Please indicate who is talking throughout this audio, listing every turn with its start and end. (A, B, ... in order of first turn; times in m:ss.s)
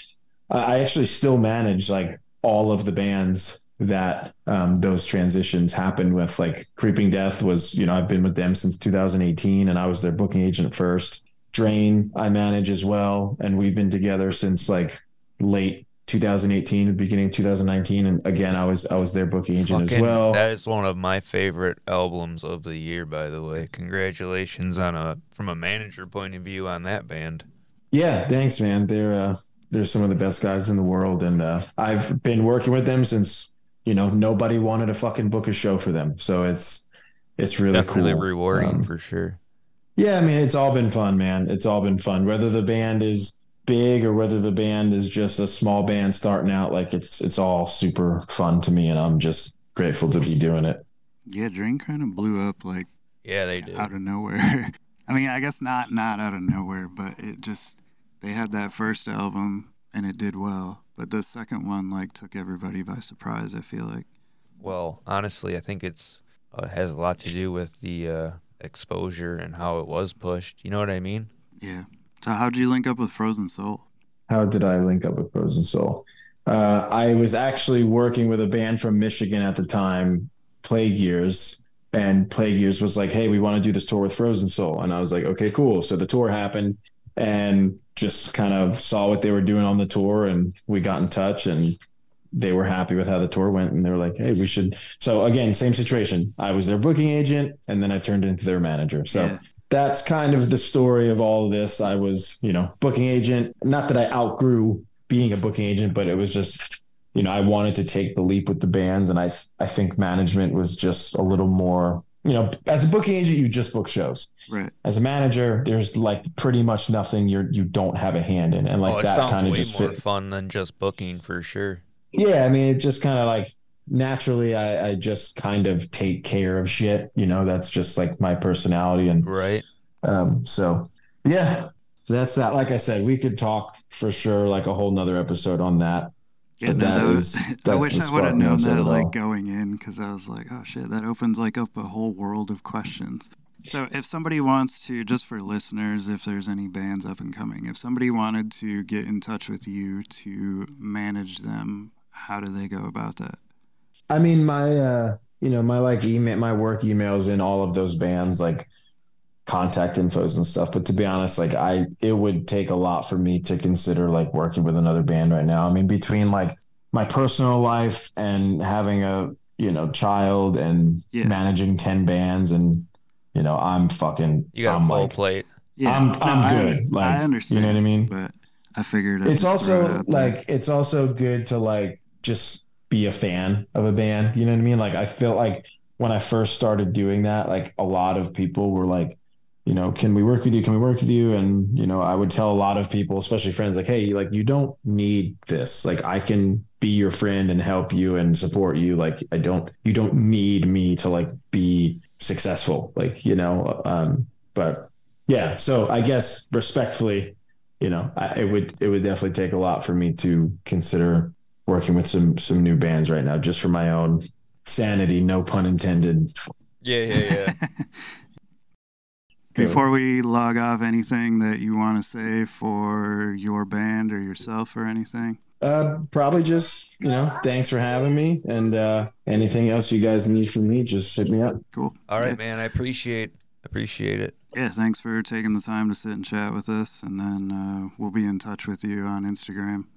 0:00.5-0:20.4 A
0:19.6-0:27.5 B
0:27.9-0:36.9 A
0:37.4-0:38.9 A
0:37.7-0:39.4 B
0:40.0-0:50.8 A
0:51.3-0:52.9 C
0:53.2-0:53.9 B
0:53.6-1:04.1 C
1:04.6-1:11.3 B
1:11.6-1:13.8 C
1:14.3-1:31.7 A
1:32.3-1:54.3 A
1:39.1-1:39.4 C
1:54.5-1:54.7 C
1:54.8-2:00.0 A
1:58.8-2:01.8 B
2:02.1-2:09.3 A
2:09.2-2:09.6 B
2:10.0-2:16.1 A
2:16.6-2:33.4 C
2:16.7-2:19.1 A
2:34.1-2:38.7 A
2:39.5-2:55.2 A
2:51.1-2:51.4 C
2:54.5-2:55.5 B
2:55.8-3:00.4 C
2:55.8-2:58.1 A
2:59.2-3:36.3 A
3:36.8-3:37.6 B
3:37.2-3:38.1 C
3:39.6-3:39.8 A
3:39.6-3:45.4 C
3:45.6-3:51.6 A
3:51.7-3:52.4 C
3:52.1-3:54.4 B
3:54.5-3:59.9 C